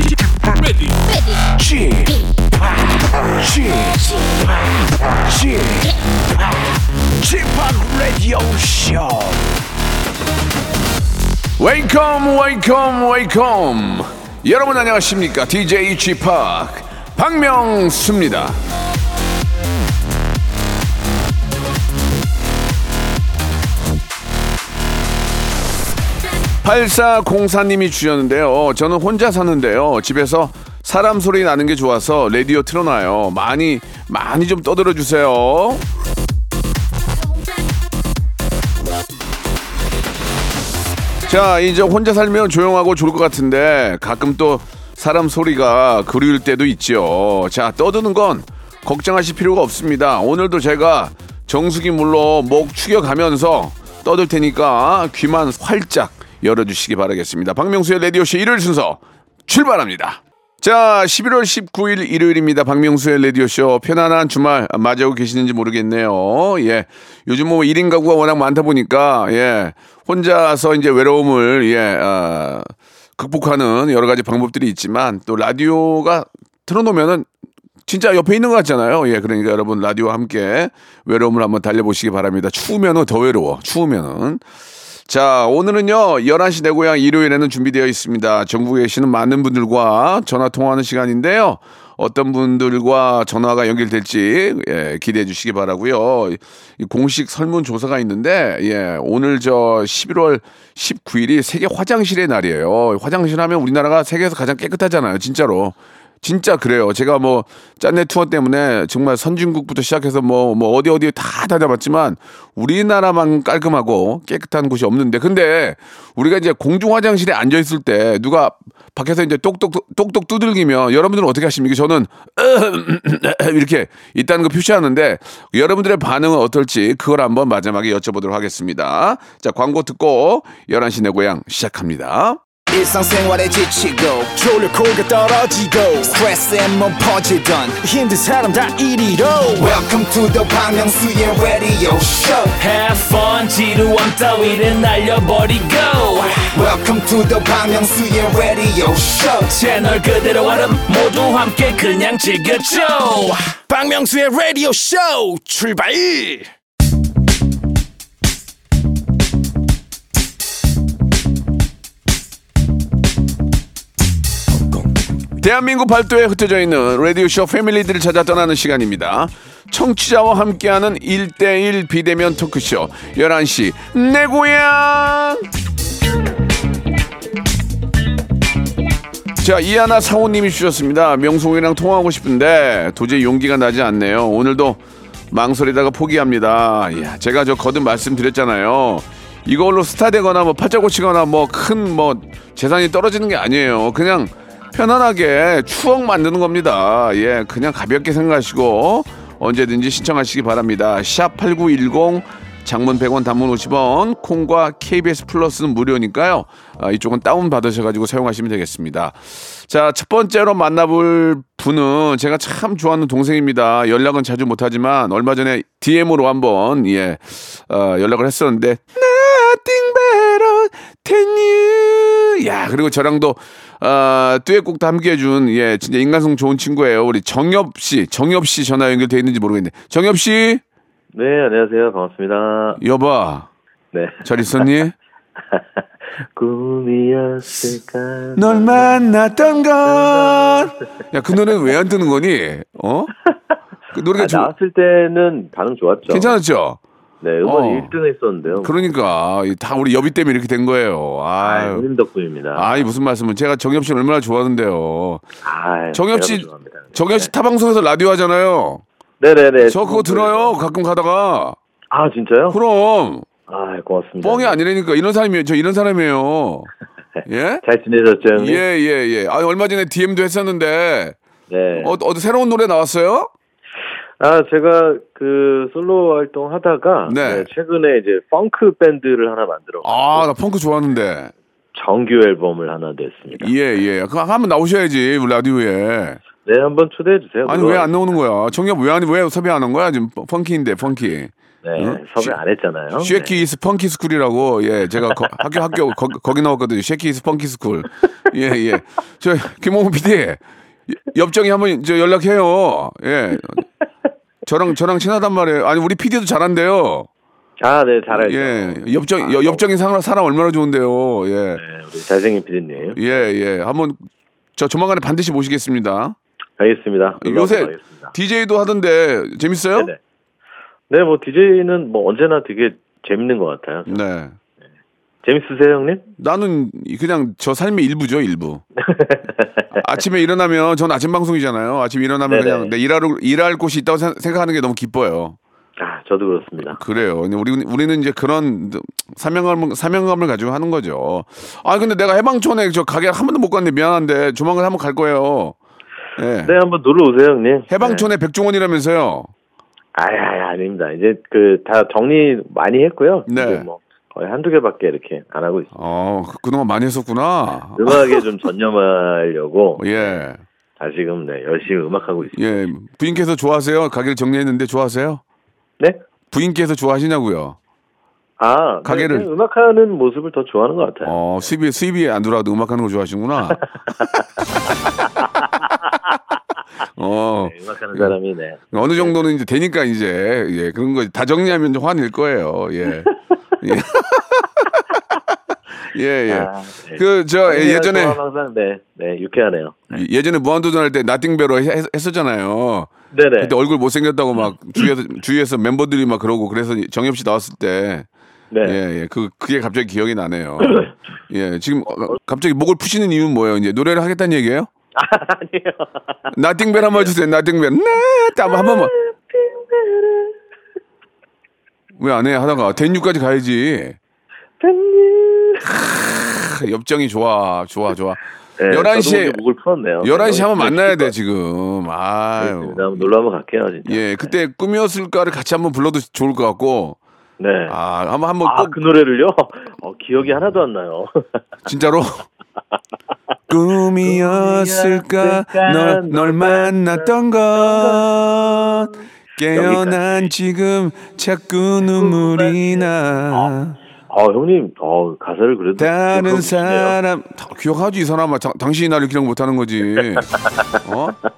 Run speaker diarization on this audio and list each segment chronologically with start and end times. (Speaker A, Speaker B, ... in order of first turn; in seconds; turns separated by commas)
Speaker A: 1.6-2.0, Speaker A: 3.4-4.0, Speaker A: 5.3-5.7, Speaker A: 7.2-9.2, Speaker A: 11.6-18.6, Speaker A: 26.6-35.9, Speaker A: 41.3-77.3, Speaker A: 77.9-84.4, Speaker A: 85.1-132.4, Speaker B: 132.7-138.4, Speaker C: 134.8-135.6, Speaker C: 137.8-139.7, Speaker B: 139.2-142.6, Speaker D: 142.6-146.6, Speaker B: 146.5-149.5, Speaker D: 149.5-153.4, Speaker C: 153.7-156.5, Speaker A: 165.4-175.5, Speaker A: 179.4-184.8, Speaker A: 185.3-230.6, Speaker E: 231.1-232.8, Speaker A: 232.8-233.5, Speaker E: 233.9-234.7, Speaker A: 234.2-234.9, Speaker E: 236.3-239.0, Speaker A: 238.4-243.1, Speaker E: 239.8-240.8, Speaker A: 243.9-244.5, Speaker E: 244.2-246.3, Speaker A: 246.1-246.8, Speaker E: 247.2-248.8, Speaker A: 247.4-247.9, Speaker A: 248.5-251.8, Speaker E: 251.4-252.9, Speaker A: 252.6-255.3, Speaker E: 255.4-257.3, Speaker A: 255.9-258.8, Speaker E: 259.2-260.6, Speaker A: 259.6-261.6, Speaker E: 261.9-262.6, Speaker A: 262.5-263.3, Speaker E: 263.5-264.6, Speaker A: 264.2-266.7, Speaker A: 267.3-267.6, Speaker E: 267.6-268.6, Speaker A: 268.3-271.2, Speaker E: 271.5-271.9, Speaker A: 271.8-273.3, Speaker E: 274.2-280.3, Speaker A: 277.1-277.5, Speaker A: 279.8-281.3, Speaker E: 281.7-283.5, Speaker A: 283.3-286.2, Speaker E: 286.4-287.9, Speaker A: 287.5-292.4, Speaker E: 291.6-293.4, Speaker A: 293.0-303.6, Speaker A: 304.5-307.1, Speaker E: 307.6-309.6, Speaker A: 308.1-311.6, Speaker E: 311.6-313.1, Speaker A: 312.9-314.0, Speaker A: 314.6-316.2, Speaker E: 316.6-318.1, Speaker A: 317.2-319.9, Speaker E: 320.9-324.0, Speaker A: 323.9-324.4, Speaker E: 325.2-326.1, Speaker A: 326.2-328.6, Speaker E: 328.8-329.7, Speaker A: 329.7-335.4, Speaker E: 332.2-332.7, Speaker E: 335.8-336.8, Speaker A: 336.6-345.6, Speaker A: 346.2-346.6, Speaker E: 346.4-348.1, Speaker A: 347.7-349.3, Speaker E: 349.9-355.8, Speaker A: 353.3-353.7, Speaker A: 355.8-358.2, Speaker E: 357.8-360.2, Speaker A: 359.8-360.4, Speaker E: 360.8-362.5, Speaker A: 362.3-365.2, Speaker A: 366.3-367.6, Speaker E: 368.4-371.2, Speaker A: 368.9-369.3, Speaker A: 371.0-373.6, Speaker E: 373.6-374.1, Speaker E: 375.0-375.5, Speaker A: 377.0-378.1, Speaker E: 377.4-379.2, Speaker A: 378.7-384.8, Speaker A: 385.9-388.2, Speaker E: 386.3-390.0, Speaker A: 389.9-398.1, Speaker E: 393.1-393.5, Speaker E: 398.5-398.8, Speaker A: 398.6-404.7, Speaker E: 400.6-400.9, Speaker E: 401.9-402.2, Speaker E: 405.0-406.1, Speaker A: 406.3-408.9, Speaker E: 406.7-407.1, Speaker E: 408.5-410.4, Speaker A: 412.0-414.0, Speaker E: 414.6-415.7, Speaker A: 415.6-419.4, Speaker E: 418.6-421.1, Speaker A: 420.0-423.1, Speaker E: 422.4-424.0, Speaker A: 423.9-427.0, Speaker E: 427.4-427.8, Speaker A: 427.7-428.8, Speaker E: 428.4-431.2, Speaker A: 431.7-432.2, Speaker A: 433.5-443.8, Speaker E: 434.0-439.0, Speaker E: 439.5-440.3, Speaker E: 441.8-443.6, Speaker E: 444.1-447.0, Speaker A: 445.8-450.3, Speaker E: 450.0-450.8, Speaker A: 450.8-451.2